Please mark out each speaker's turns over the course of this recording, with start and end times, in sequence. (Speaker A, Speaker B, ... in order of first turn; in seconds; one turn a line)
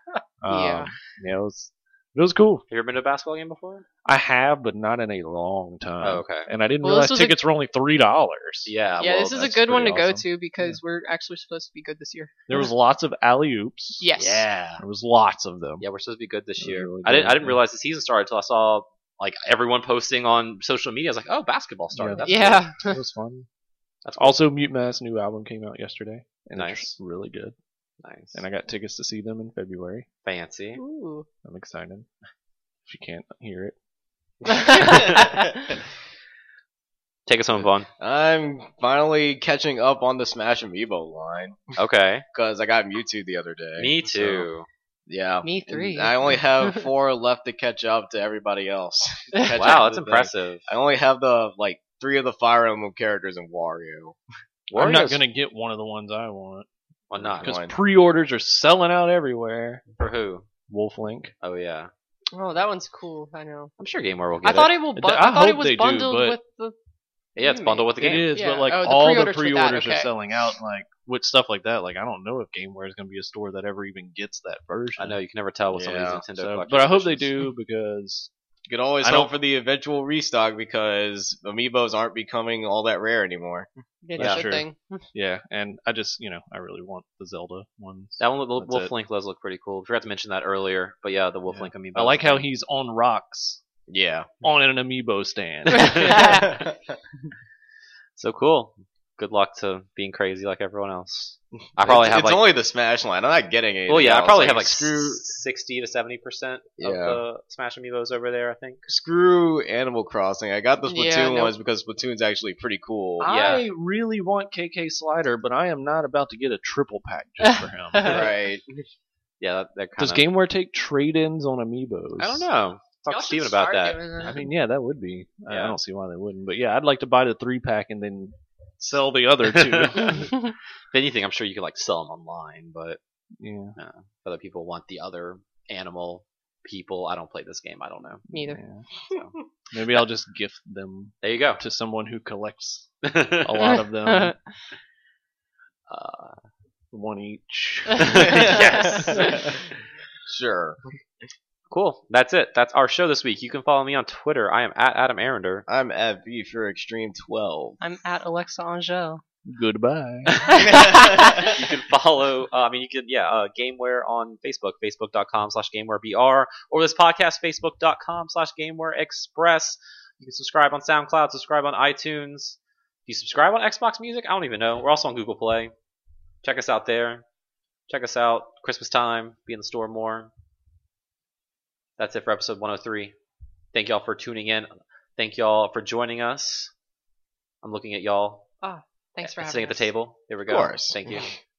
Speaker A: 0.4-2.7
Speaker B: 0.5-0.9
Speaker C: 2.7-3.9
Speaker A: 4.0-8.7
Speaker C: 6.0-6.5
Speaker B: 6.8-7.4
Speaker C: 8.7-9.6
Speaker B: 9.0-12.7
Speaker A: 9.3-10.8
Speaker A: 12.5-14.1
Speaker B: 14.0-14.4
Speaker C: 14.2-14.8
Speaker A: 14.8-15.8
Speaker C: 15.8-22.6
Speaker A: 16.6-17.6
Speaker A: 21.9-23.5
Speaker B: 22.2-23.0
Speaker C: 24.1-24.4
Speaker A: 24.2-27.6
Speaker C: 26.6-26.9
Speaker C: 28.0-28.4
Speaker A: 28.3-30.1
Speaker C: 30.2-30.8
Speaker B: 30.8-31.3
Speaker A: 31.4-32.1
Speaker A: 32.9-33.7
Speaker B: 34.5-35.5
Speaker C: 34.8-35.3
Speaker C: 37.3-37.9
Speaker D: 38.0-41.6
Speaker C: 41.8-42.2
Speaker D: 42.3-44.5
Speaker C: 43.8-44.7
Speaker D: 45.1-54.2
Speaker B: 45.4-46.8
Speaker B: 49.4-49.7
Speaker C: 49.5-50.7
Speaker C: 54.7-55.2
Speaker A: 54.7-56.7
Speaker C: 57.1-57.6
Speaker D: 57.2-57.8
Speaker A: 57.4-59.9
Speaker C: 60.0-60.5
Speaker A: 60.7-61.3
Speaker C: 61.4-61.9
Speaker B: 62.3-63.7
Speaker C: 63.8-64.8
Speaker B: 64.4-66.8
Speaker A: 65.0-66.4
Speaker C: 67.4-68.3
Speaker B: 67.4-70.1
Speaker A: 68.0-75.2
Speaker C: 75.0-77.3
Speaker D: 75.7-76.2
Speaker A: 76.3-78.3
Speaker D: 78.7-83.7
Speaker A: 79.0-79.3
Speaker B: 84.0-85.0
Speaker A: 84.2-88.9
Speaker C: 84.2-84.5
Speaker C: 88.2-92.5
Speaker A: 91.5-93.6
Speaker D: 93.9-94.3
Speaker A: 94.4-96.4
Speaker C: 95.8-96.4
Speaker B: 95.8-96.5
Speaker D: 96.2-96.8
Speaker C: 98.2-102.5
Speaker D: 101.8-105.2
Speaker C: 103.9-108.8
Speaker D: 106.8-107.2
Speaker D: 108.9-113.3
Speaker B: 110.9-111.5
Speaker A: 113.2-118.2
Speaker C: 113.2-113.7
Speaker D: 118.0-118.8
Speaker C: 119.4-120.3
Speaker A: 120.0-122.5
Speaker C: 122.2-124.4
Speaker B: 123.1-124.4
Speaker A: 124.2-130.4
Speaker C: 125.5-125.8
Speaker C: 129.5-130.2
Speaker C: 130.9-133.0
Speaker A: 133.4-133.8
Speaker C: 133.8-138.3
Speaker A: 138.3-138.8
Speaker B: 138.3-138.6
Speaker A: 139.7-144.4
Speaker C: 141.2-141.6
Speaker C: 143.0-143.7
Speaker B: 143.7-144.4
Speaker C: 145.9-146.4
Speaker A: 146.9-148.6
Speaker C: 148.0-149.5
Speaker B: 148.4-149.2
Speaker D: 150.3-150.8
Speaker C: 151.7-155.7
Speaker D: 155.7-157.8
Speaker B: 157.8-159.2
Speaker A: 159.4-160.3
Speaker C: 160.3-175.7
Speaker B: 160.4-161.6
Speaker D: 160.6-161.4
Speaker C: 176.4-177.2
Speaker C: 177.9-180.3
Speaker C: 182.0-183.1
Speaker C: 183.7-186.7
Speaker C: 187.6-188.4
Speaker B: 188.6-189.9
Speaker C: 189.2-191.3
Speaker D: 190.4-191.0